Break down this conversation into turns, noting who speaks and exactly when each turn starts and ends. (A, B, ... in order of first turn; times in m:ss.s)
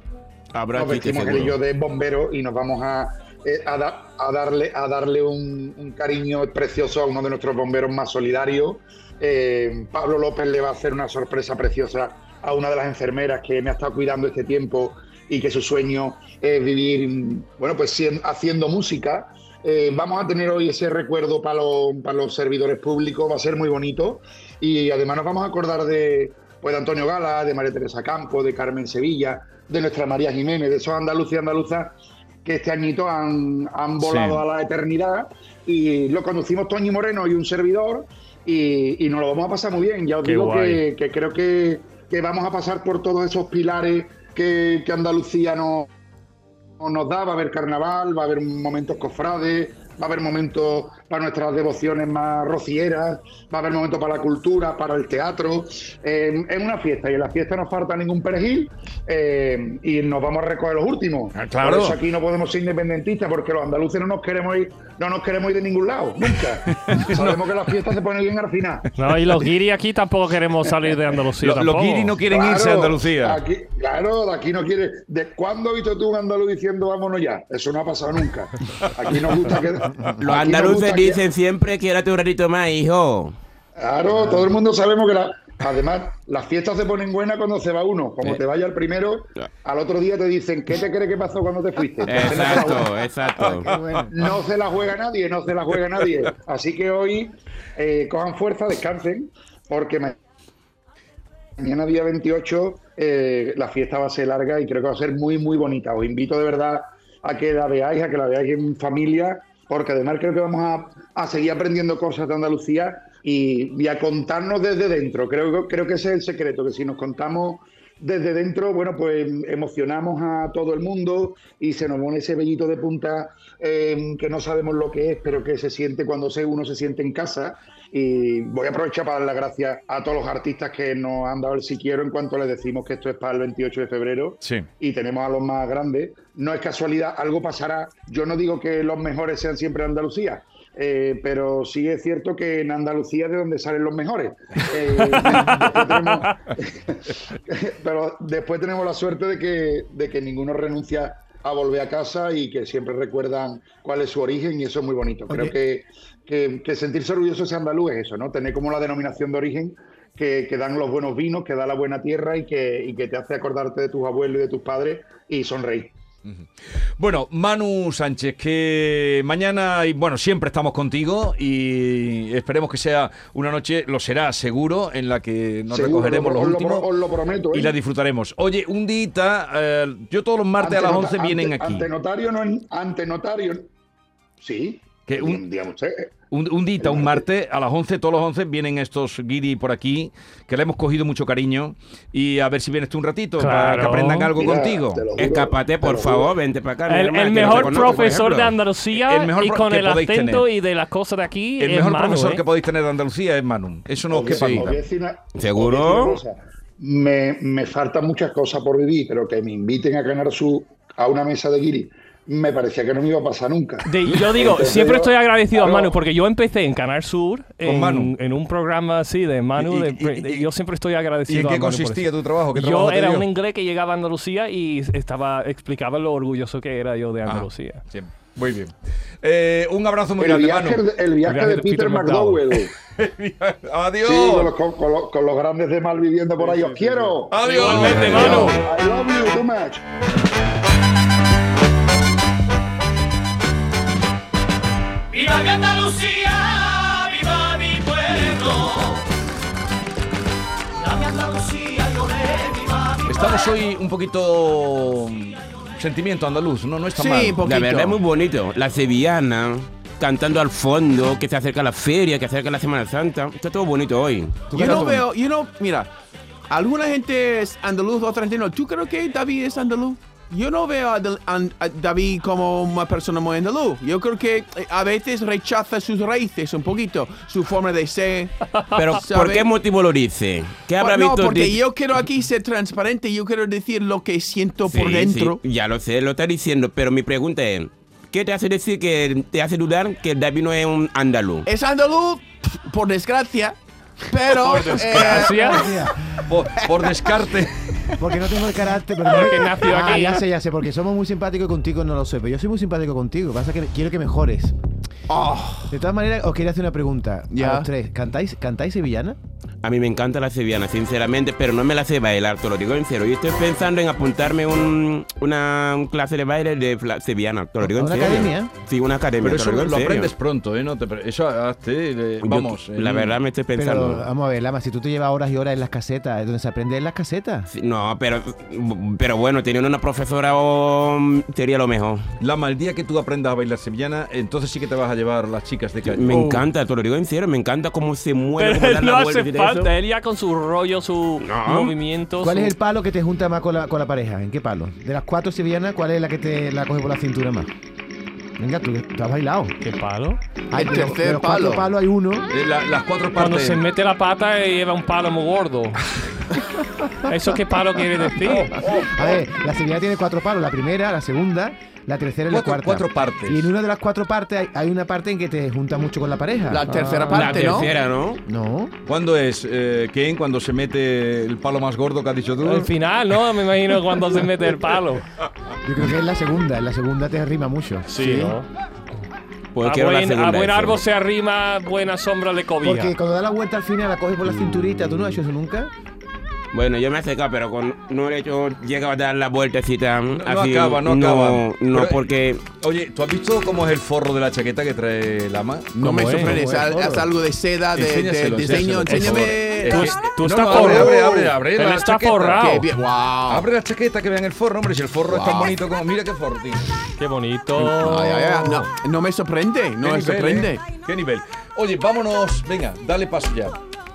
0:00.5-0:01.6 A
0:00.7-0:45.9 B
0:34.0-0:34.4 C
0:40.2-0:40.8 D
0:46.8-1:08.9 B
1:01.3-1:02.0 C
1:06.8-1:07.5 C
1:09.0-1:12.2 D
1:11.4-1:13.4 C
1:12.3-1:21.2 B
1:20.2-1:23.4 A
1:23.8-1:33.0 B
1:32.0-1:33.7 A
1:33.6-1:34.1 E
1:34.1-1:40.2 B
1:41.6-2:45.9 B
2:25.1-2:25.7 C
2:35.3-2:35.5 E
2:46.2-2:56.8 C
2:55.7-2:57.8 B
2:57.5-3:01.9 C
3:00.6-3:03.7 B
3:04.4-3:06.1 B
3:05.1-3:05.4 C
3:06.3-3:15.3 C
3:06.8-3:07.2 B
3:13.4-3:14.3 D
3:14.3-3:16.3 B
3:15.2-3:18.5 A
3:16.9-3:22.4 D
3:17.3-3:20.4 C
3:21.6-3:24.8 C
3:24.1-3:35.9 B
3:24.3-3:24.7 A
3:25.4-3:26.2 A
3:33.8-3:47.8 D
3:37.6-3:38.1 C
3:39.6-3:40.5 C
3:41.3-3:43.3 C
3:47.3-3:50.8 C
3:50.2-3:52.7 B
3:51.2-3:52.4 D
3:52.9-3:54.5 C
3:54.0-3:59.8 B
3:56.5-3:58.6 C
3:57.4-3:58.6 D
4:05.1-4:08.4 F
4:08.1-4:09.0 A
4:11.0-4:12.9 F
4:13.0-4:17.4 C
4:16.9-4:18.0 G
4:17.4-4:24.8 A
4:24.5-4:25.0 E
4:24.5-4:25.9 G
4:26.5-4:38.3 G
4:38.7-4:41.6 A
4:38.9-4:39.5 G
4:40.8-4:45.4 G
4:44.6-4:51.5 A
4:51.4-4:55.8 G
4:54.4-4:55.7 D
4:55.3-4:56.0 E
4:56.3-4:57.6 C
4:58.0-5:04.5 E
4:59.1-5:00.2 D
5:05.1-5:05.8 G
5:05.7-5:09.2 E
5:07.3-5:07.7 G
5:09.6-5:20.1 A
5:17.6-5:18.5 E
5:19.2-5:23.2 C
5:22.2-5:24.1 A
5:23.5-5:27.5 E
5:27.5-5:32.1 A
5:32.2-5:36.3 C
5:35.8-5:39.7 A
5:36.1-5:36.4 G
5:38.4-5:42.5 D
5:41.2-5:41.8 A
5:42.2-5:47.5 E
5:48.4-5:49.6 E
5:49.6-5:50.2 D
5:50.5-5:51.7 G
5:50.5-5:52.3 E
5:52.3-5:53.6 C
5:53.1-5:55.8 D
5:57.0-5:58.6 D
5:58.5-5:58.9 C
5:58.6-6:06.7 E
6:02.3-6:03.5 C
6:06.5-6:07.7 G
6:06.7-6:07.6 D
6:07.1-6:08.2 A
6:08.2-6:08.7 E
6:08.9-6:12.7 C
6:12.4-6:15.1 D
6:15.6-6:18.4 E
6:17.9-6:18.5 D
6:19.5-6:20.8 A
6:19.6-6:22.9 D
6:22.6-6:25.7 E
6:26.5-6:32.4 A
6:30.1-6:36.7 C
6:35.7-6:41.4 G
6:35.8-6:37.0 D
6:37.7-6:42.5 C
6:38.8-6:42.6 D
6:42.4-6:43.5 G
6:43.3-6:46.7 C
6:45.1-6:45.6 G
6:47.0-6:48.7 D
6:47.8-6:50.7 G
6:49.8-6:53.6 C